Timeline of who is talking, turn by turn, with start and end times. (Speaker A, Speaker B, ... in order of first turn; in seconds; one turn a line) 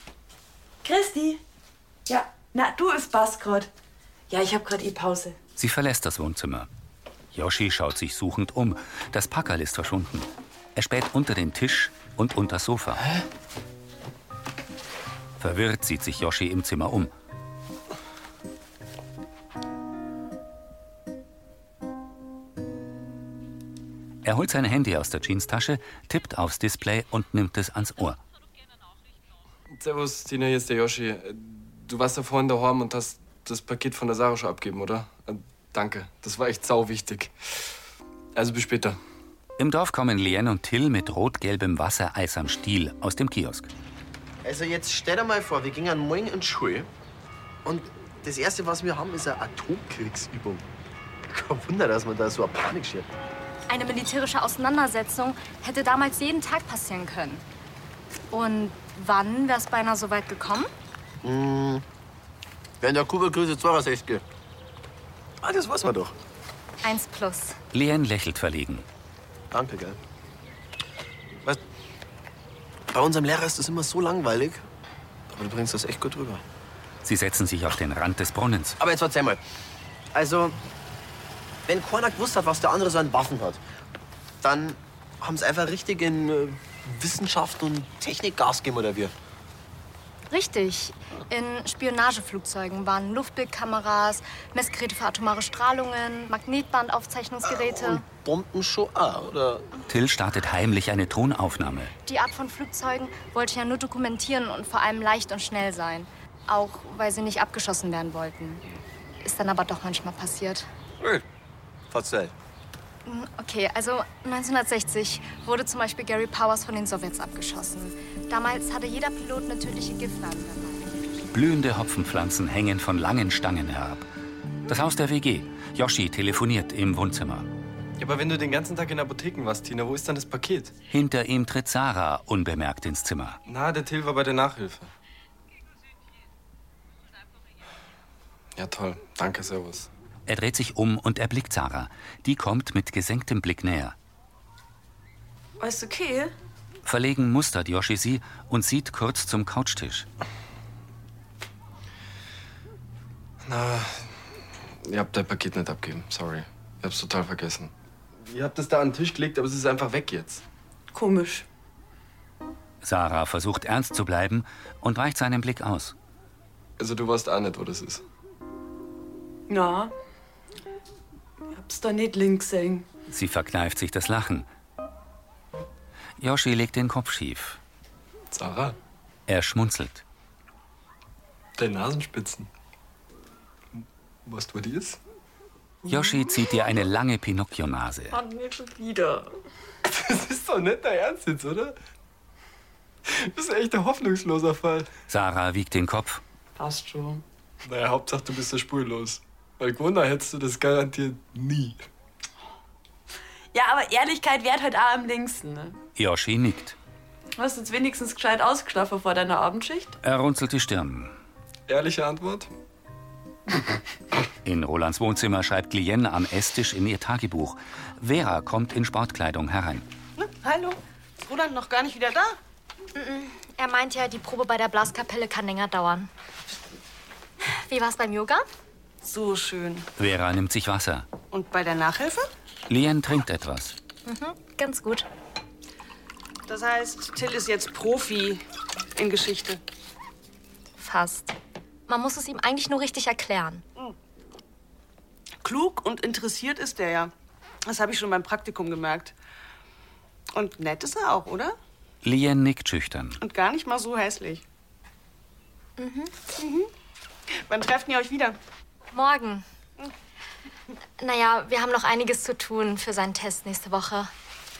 Speaker A: 0.8-1.4
Speaker A: 2.1-3.7
Speaker A: 4.3-5.4
Speaker B: 5.6-6.7
Speaker B: 7.3-13.1
Speaker B: 15.4-17.1
Speaker B: 24.2-28.2
Speaker C: 29.7-37.3
Speaker C: 38.3-39.0
Speaker B: 39.6-43.7
Speaker D: 44.4-46.9
Speaker D: 47.6-50.6
Speaker D: 51.3-53.1
Speaker E: 53.7-57.4
Speaker E: 58.3-60.7
Speaker D: 61.2-61.8
Speaker D: 62.8-64.2
Speaker D: 65.4-66.1
Speaker E: 66.8-67.6
Speaker B: 67.7-68.8
Speaker D: 69.5-70.0
Speaker D: 72.9-74.7
Speaker D: 75.3-76.4
Speaker B: 77.0-78.8
Speaker D: 78.8-79.4
Speaker D: 80.1-80.5
Speaker D: 81.7-83.6
Speaker D: 84.4-89.1
Speaker E: 90.3-98.0
Speaker D: 97.5-99.7
Speaker B: 99.9-101.9
Speaker E: 102.0-108.6
Speaker E: 109.2-110.7
Speaker D: 111.9-112.3
Speaker E: 113.0-121.2
Speaker B: 121.3-124.1
Speaker B: 124.7-127.5
Speaker C: 128.0-130.7
Speaker B: 130.9-133.4
Speaker C: 133.5-134.9
Speaker C: 138.6-139.9
Speaker B: 140.3-143.9
Speaker A: 145.6-146.3
Speaker B: 146.8-150.1
Speaker C: 153.4-154.1
Speaker C: 154.8-157.7
Speaker C: 158.2-160.4
Speaker A: 160.9-161.4
Speaker B: 162.8-165.9
Speaker C: 166.8-168.0
Speaker A: 169.5-169.9
Speaker A: 171.5-172.9
Speaker B: 173.1-174.5
Speaker B: 176.2-177.6
Speaker C: 178.3-178.8
Speaker B: 179.3-180.0
Speaker C: 181.6-182.5
Speaker C: 183.8-185.0
Speaker A: 185.8-186.1
Speaker B: 185.9-188.2
Speaker A: 188.1-189.3
Speaker C: 189.8-191.7
Speaker C: 193.1-194.9
Speaker B: 195.1-196.2
Speaker A: 196.6-197.2
Speaker C: 197.6-201.8
Speaker A: 203.5-205.8
Speaker B: 205.9-206.8
Speaker A: 207.4-210.0
Speaker B: 210.0-211.2
Speaker C: 211.7-212.5
Speaker B: 214.4-219.8
Speaker F: 220.2-222.4
Speaker E: 222.9-226.1
Speaker E: 227.5-228.4
Speaker F: 229.0-229.9
Speaker B: 230.0-231.1
Speaker F: 231.3-232.3
Speaker B: 232.7-233.7
Speaker E: 234.1-235.1
Speaker F: 236.5-238.4
Speaker F: 238.9-239.6
Speaker E: 240.8-241.3
Speaker E: 241.9-243.6
Speaker F: 245.4-247.1
Speaker F: 247.7-249.1
Speaker F: 250.3-251.5
Speaker B: 252.0-253.2
Speaker F: 253.2-254.4
Speaker E: 255.8-256.1
Speaker F: 256.4-256.7
Speaker F: 257.4-258.4
Speaker E: 258.9-259.4
Speaker E: 261.0-264.1